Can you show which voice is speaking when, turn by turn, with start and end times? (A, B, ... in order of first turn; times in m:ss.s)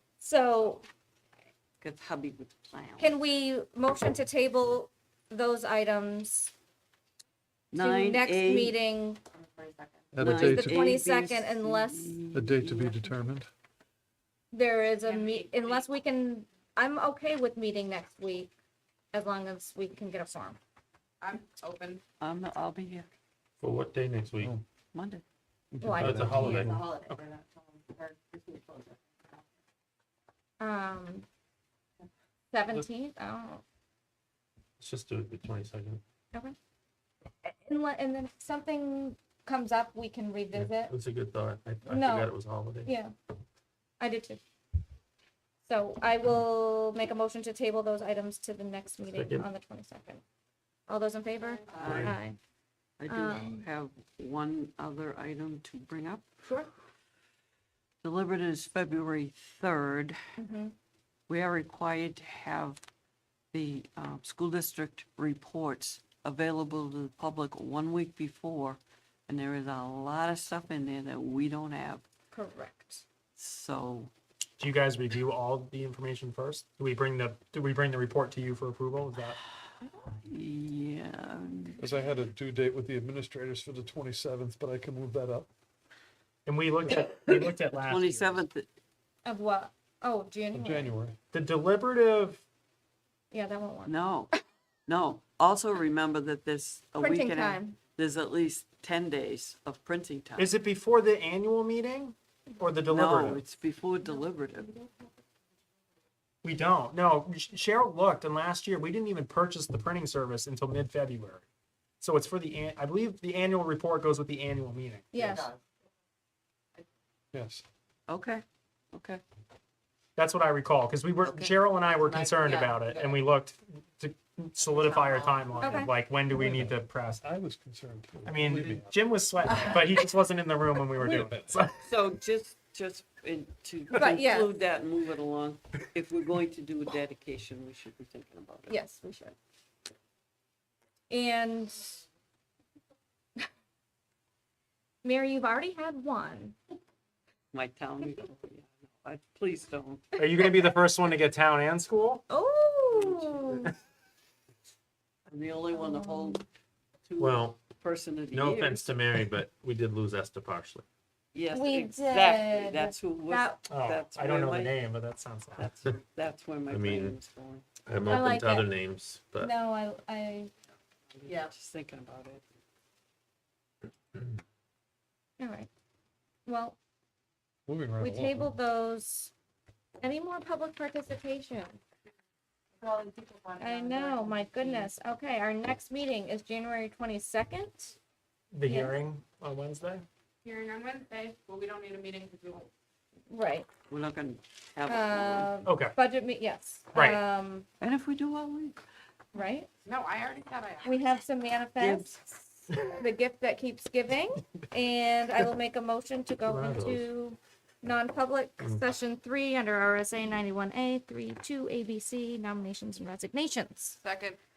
0:00.2-0:00.8 A
0:01.8-0:03.1 B
0:03.0-0:06.5 A
0:07.7-0:08.8 B
0:07.8-0:09.2 A
0:10.1-0:10.8 C
0:10.2-0:13.1 B
0:10.3-0:12.2 A
0:12.3-0:13.5 C
0:14.5-0:18.5 A
0:15.0-0:15.8 D
0:19.1-0:20.6 A
0:21.2-0:22.0 D
0:22.2-0:23.1 B
0:23.6-0:24.5 E
0:24.9-0:25.2 B
0:25.7-0:26.6 C
0:25.8-0:26.6 A
0:26.0-0:27.2 F
0:26.0-0:26.9 E
0:26.6-0:29.0 D
0:30.6-0:31.2 A
0:32.5-0:33.6 A
0:34.8-0:36.0 E
0:37.4-0:41.0 A
0:40.6-0:42.9 E
0:41.9-0:42.3 A
0:42.8-0:43.1 A
0:44.0-0:44.4 A
0:45.7-0:50.2 A
0:49.1-0:49.4 E
0:50.9-0:52.4 A
0:51.5-0:52.0 D
0:51.7-0:52.2 B
0:53.0-0:56.3 B
0:53.1-0:53.6 A
0:56.4-0:56.7 A
0:58.0-1:00.2 B
1:00.4-1:00.8 A
1:01.3-1:02.8 B
1:03.5-1:12.0 B
1:12.3-1:13.0 A
1:13.4-1:14.1 B
1:14.6-1:19.4 F
1:20.1-1:21.8 B
1:21.8-1:25.5 C
1:26.4-1:28.5 F
1:27.8-1:28.7 B
1:29.2-1:30.9 A
1:30.5-1:31.2 C
1:31.3-1:32.4 F
1:33.3-1:33.9 A
1:33.9-1:34.3 B
1:34.9-1:40.6 B
1:37.0-1:37.8 A
1:40.4-1:43.4 F
1:42.9-1:44.7 B
1:44.6-1:44.9 A
1:46.4-1:51.4 F
1:52.0-1:55.3 F
1:55.1-1:55.5 A
1:57.3-1:57.6 C
1:58.1-1:59.2 B
2:00.2-2:07.2 F
2:01.2-2:01.5 B
2:02.1-2:03.1 D
2:04.8-2:05.3 D
2:05.6-2:05.9 A
2:06.3-2:08.9 C
2:08.2-2:11.8 F
2:11.0-2:11.5 C
2:11.8-2:18.8 B
2:14.0-2:14.6 A
2:18.7-2:19.4 A
2:21.1-2:22.0 A
2:25.0-2:26.6 A
2:27.5-2:30.0 B
2:30.2-2:32.2 F
2:30.2-2:30.5 A
2:32.3-2:33.7 A
2:33.0-2:33.4 B
2:35.3-2:36.4 B
2:35.7-2:36.4 A
2:37.1-2:39.0 B
2:37.2-2:37.5 E
2:38.3-2:40.8 E
2:41.3-2:44.8 B
2:41.5-2:43.6 A
2:43.7-2:45.7 F
2:45.6-2:47.7 B
2:46.7-2:47.2 E
2:47.9-2:49.5 E
2:48.0-2:48.7 A
2:48.1-2:48.5 F
2:49.4-2:50.5 A
2:51.1-2:52.4 B
2:55.4-2:55.7 A
2:56.5-2:56.8 A
2:57.7-2:58.6 C
2:58.0-2:59.3 A
3:00.0-3:01.8 A
3:02.8-3:04.9 D
3:03.6-3:08.0 A
3:08.5-3:10.0 F
3:08.6-3:08.9 A
3:10.4-3:12.7 D
3:13.3-3:13.7 A
3:13.9-3:15.5 B
3:14.9-3:17.7 A
3:15.7-3:15.9 F
3:16.9-3:17.2 F
3:17.8-3:18.8 B
3:19.3-3:19.7 A
3:19.8-3:21.0 D
3:20.8-3:34.0 A
3:21.8-3:22.1 B
3:26.5-3:27.1 E
3:34.0-3:34.4 D